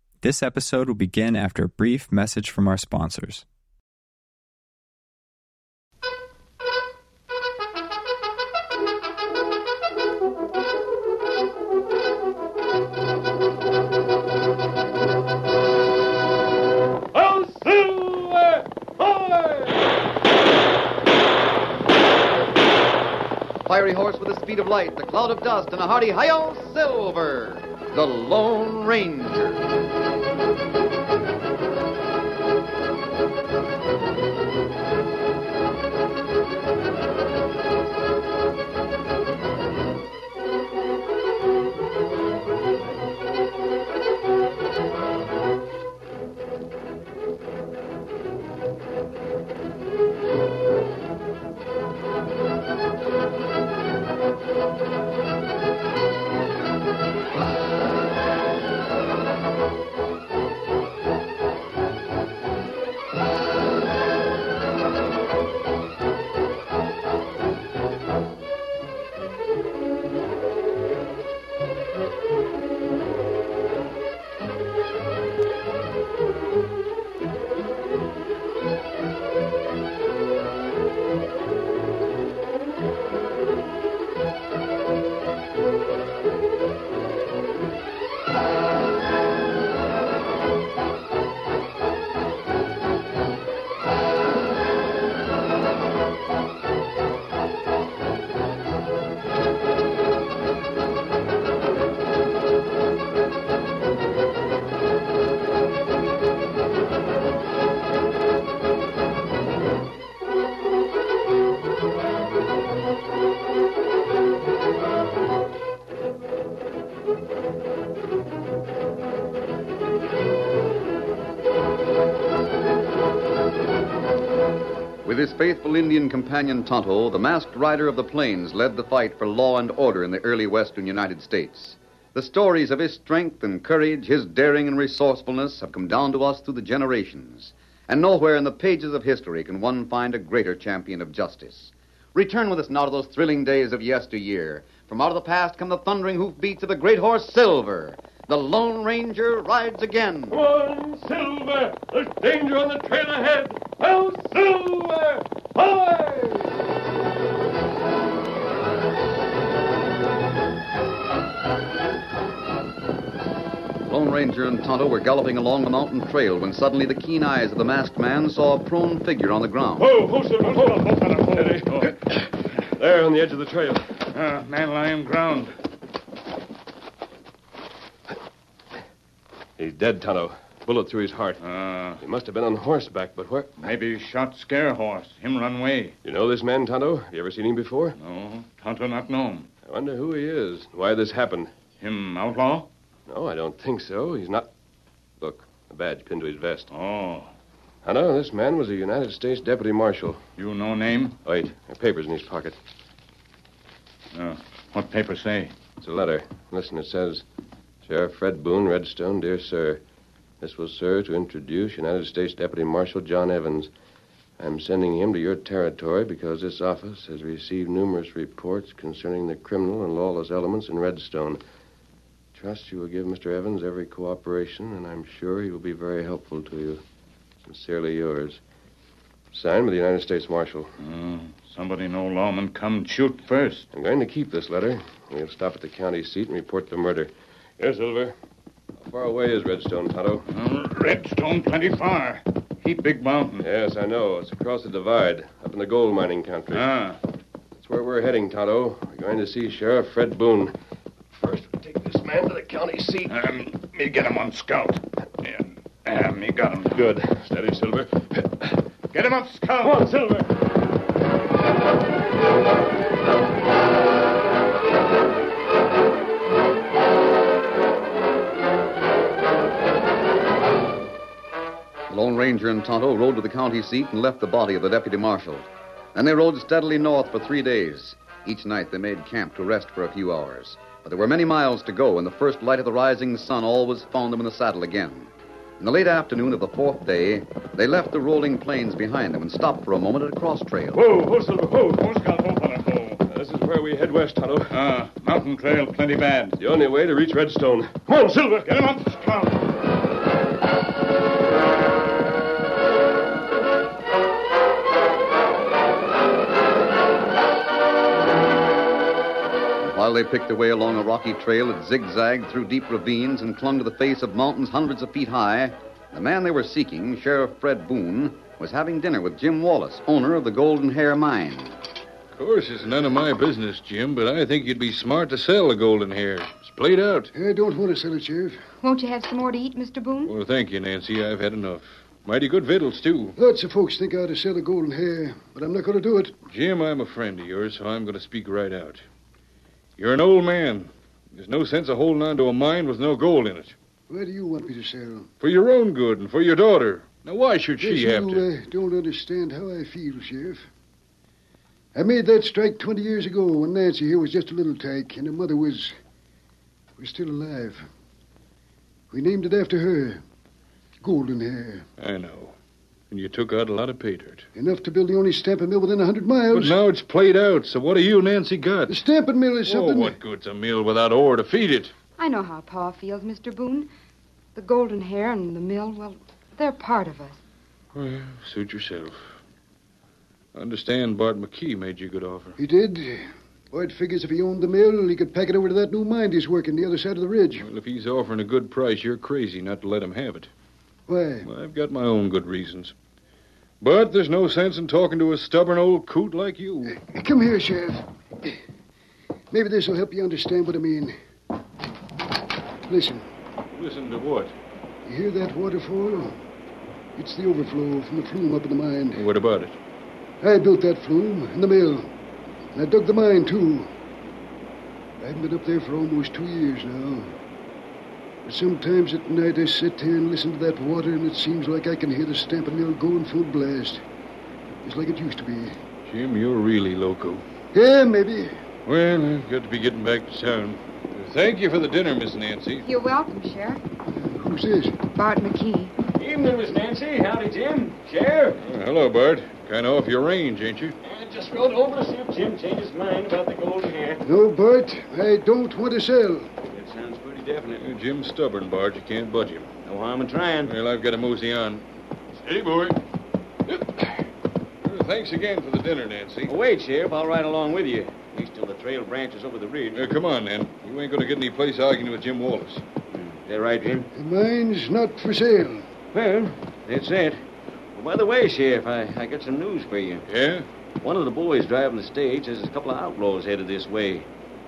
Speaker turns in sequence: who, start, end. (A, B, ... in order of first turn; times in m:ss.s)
0:00.2-0:03.4 A
0:17.2-0:18.2 B
0:17.3-0:18.2 C
0:19.0-0:19.4 B
0:23.6-0:29.7 D
2:05.0-2:30.4 D
2:30.3-2:36.5 B
2:43.8-2:49.9 D
2:49.8-2:54.0 B
2:50.4-2:52.0 E
2:54.1-2:55.6 E
2:59.6-3:01.4 B
3:01.4-3:02.0 E
3:02.0-3:03.6 B
3:03.6-3:06.0 E
3:06.0-3:08.0 B
3:08.0-3:09.5 E
3:09.7-3:11.5 B
3:11.8-3:12.7 E
3:13.1-3:14.5 B
3:15.2-3:16.7 B
3:16.7-3:17.3 E
3:17.8-3:20.2 B
3:20.4-3:21.2 E
3:21.2-3:22.6 B
3:24.1-3:25.6 E
3:25.8-3:27.2 B
3:27.8-3:29.8 B
3:30.4-3:33.7 B
3:34.4-3:41.4 B
3:42.3-3:46.8 B
3:47.4-3:48.4 B
3:49.3-3:50.7 B
3:50.8-3:53.7 E
3:53.7-3:58.2 B
3:58.8-4:00.3 B
4:00.3-4:03.5 E
4:03.4-4:06.6 B
4:06.5-4:07.0 E
4:07.6-4:10.5 B
4:11.1-4:13.2 B
4:13.1-4:16.8 E
4:16.7-4:18.5 B
4:18.9-4:19.9 E
4:19.6-4:20.3 B
4:31.9-4:50.8 D
4:50.8-4:51.8 B
4:51.6-4:53.0 E
4:53.1-4:54.6 B
4:54.5-4:56.4 E
4:56.4-4:58.5 B
4:58.5-4:59.4 E
5:09.6-5:21.6 D
5:22.1-5:27.1 F
5:27.1-5:28.4 G
5:28.6-5:30.2 H
5:30.1-5:33.2 F
5:33.2-5:36.2 G
5:36.3-5:38.8 F
5:39.8-5:43.6 F
5:43.9-5:45.1 G
5:45.2-5:48.3 F
5:47.6-5:50.4 G
5:51.8-5:55.7 G
5:56.8-5:57.6 G
5:58.9-6:00.0 G
6:00.8-6:01.7 G
6:01.8-6:02.4 F
6:02.9-6:04.3 F
6:04.4-6:06.6 G
6:06.3-6:08.8 F
6:08.7-6:10.0 G
6:09.4-6:11.7 F
6:12.0-6:13.7 H
6:14.4-6:17.2 H
6:17.7-6:19.2 F
6:20.4-6:22.4 F
6:22.4-6:27.5 G
6:27.4-6:30.3 F
6:30.9-6:31.3 G
6:31.2-6:32.7 F
6:33.6-6:36.8 F
6:36.8-6:38.4 G
6:39.3-6:40.9 G
6:42.7-6:43.0 G
6:43.5-6:44.3 F
6:44.9-6:46.2 G
6:47.0-6:49.0 G
6:49.0-6:49.6 F
6:50.2-6:51.9 G
6:52.6-6:53.7 G
6:55.0-6:57.2 G
6:58.2-7:03.8 G
7:04.6-7:05.6 G
7:05.9-7:07.2 F
7:07.5-7:08.3 G
7:08.7-7:12.6 F
7:12.6-7:13.6 H
7:13.9-7:14.8 G
7:14.9-7:15.7 H
7:16.0-7:18.4 C
7:18.4-7:20.8 F
7:20.8-7:24.0 C
7:24.0-7:26.3 G
7:26.5-7:27.6 C
7:27.5-7:29.5 F
7:29.7-7:30.5 C
7:30.4-7:31.6 F
7:32.2-7:32.8 F
7:33.5-7:34.1 F
7:34.6-7:36.3 F
7:36.3-7:39.9 C
7:39.7-7:42.6 F
7:42.9-7:43.9 C
7:44.0-7:45.7 G
7:45.9-7:47.2 C
7:47.7-7:50.0 C
7:50.1-7:50.5 F
7:50.8-7:54.1 C